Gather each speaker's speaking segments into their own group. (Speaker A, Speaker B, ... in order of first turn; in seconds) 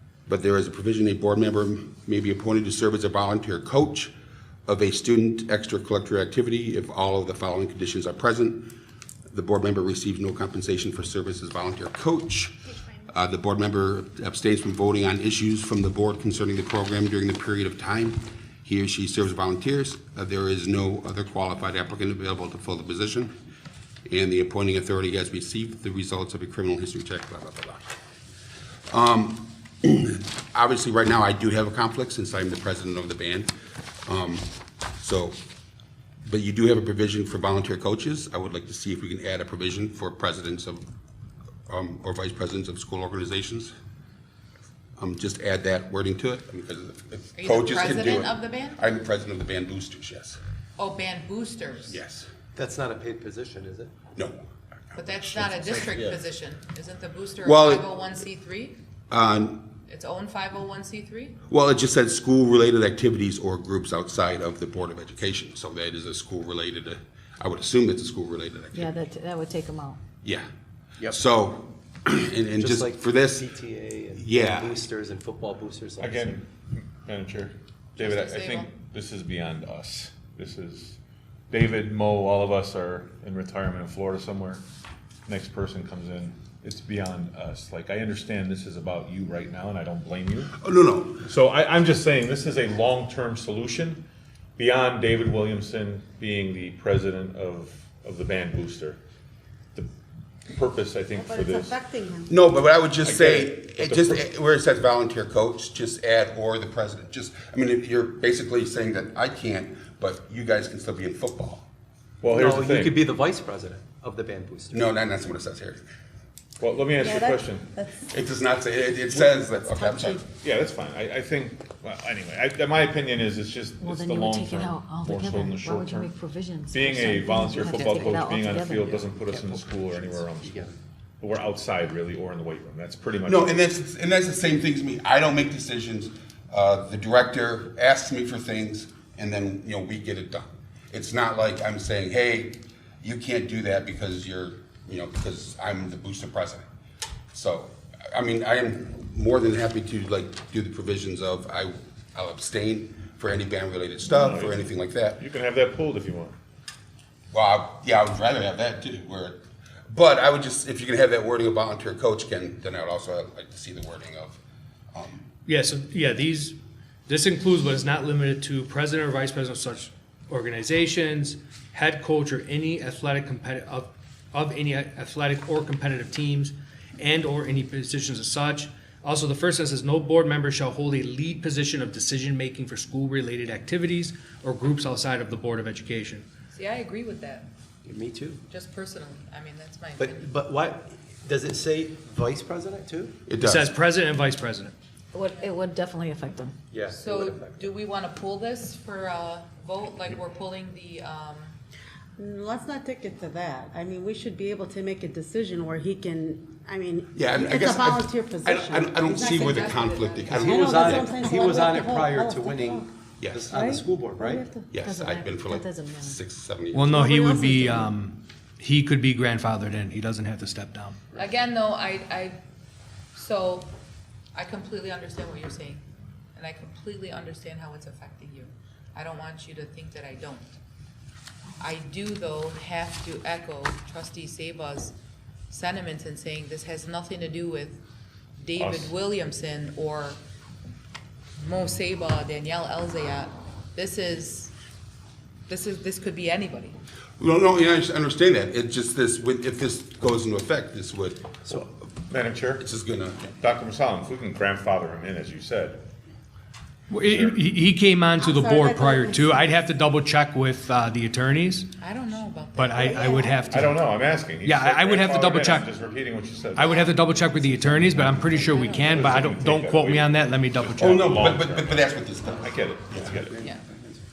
Speaker A: 0.3-4.1, 4.7-8.7, 9.3-12.5, 13.1-23.3, 24.1-27.9, 28.9-33.5, 34.0-35.4, 36.2-40.8, 41.7-43.7, 45.0-50.4, 51.9-52.3, 54.1-56.1, 57.4-57.9, 59.1-59.7, 61.5-69.0, 71.1-73.5, 74.1-74.8, 90.6-91.3, 102.3-111.7, 114.7-115.8, 118.1-120.2, 133.2-146.6, 147.3-155.2, 157.3-164.4, 164.9-165.2, 193.2-193.7, 207.1-211.1, 213.2-213.5, 214.7-217.0, 247.2-251.5, 252.6-253.3, 270.8-273.1
Speaker B: 47.4-48.9, 50.8-52.0, 54.9-58.8, 59.9-61.4, 78.0-78.7, 186.5-187.5, 188.5-190.2, 196.9-201.6, 209.2-210.5, 221.1-222.4, 223.1-223.7, 224.3-225.8, 226.3-230.5, 231.6-234.9, 235.5-237.8, 238.4-240.2, 241.4-244.5, 245.5-246.8, 261.8-263.3, 266.6-266.9, 268.4-269.3
Speaker C: 52.5-53.9, 72.6-76.4, 112.3-114.8, 127.7-128.2, 128.8-130.7, 187.8-188.4, 190.0-193.2, 196.7-197.7, 210.2-214.4, 273.1-274.0
Speaker D: 68.7-70.0, 123.8-128.9, 195.1-196.6, 214.8-216.2
Speaker E: 76.0-81.0, 81.5-84.6, 85.3-90.6, 91.2-94.0, 94.6-99.0, 100.5-101.8, 103.0-104.2, 112.2-113.0, 116.6-117.7, 120.4-126.1, 126.7-133.6, 154.1-156.3, 238.6-238.9, 251.5-252.6, 253.4-255.8, 257.0-257.4, 263.5-273.4
Speaker F: 101.1-102.3, 116.9-118.0, 119.7-120.2, 202.2-209.7, 210.4-212.9, 213.5-214.7, 216.8-217.9, 258.2-259.6, 262.7-263.7
Speaker G: 165.4-166.6, 167.1-186.2, 193.4-194.7, 216.7-221.0, 256.9-261.7, 262.6-263.8, 264.4-265.7, 266.5-270.9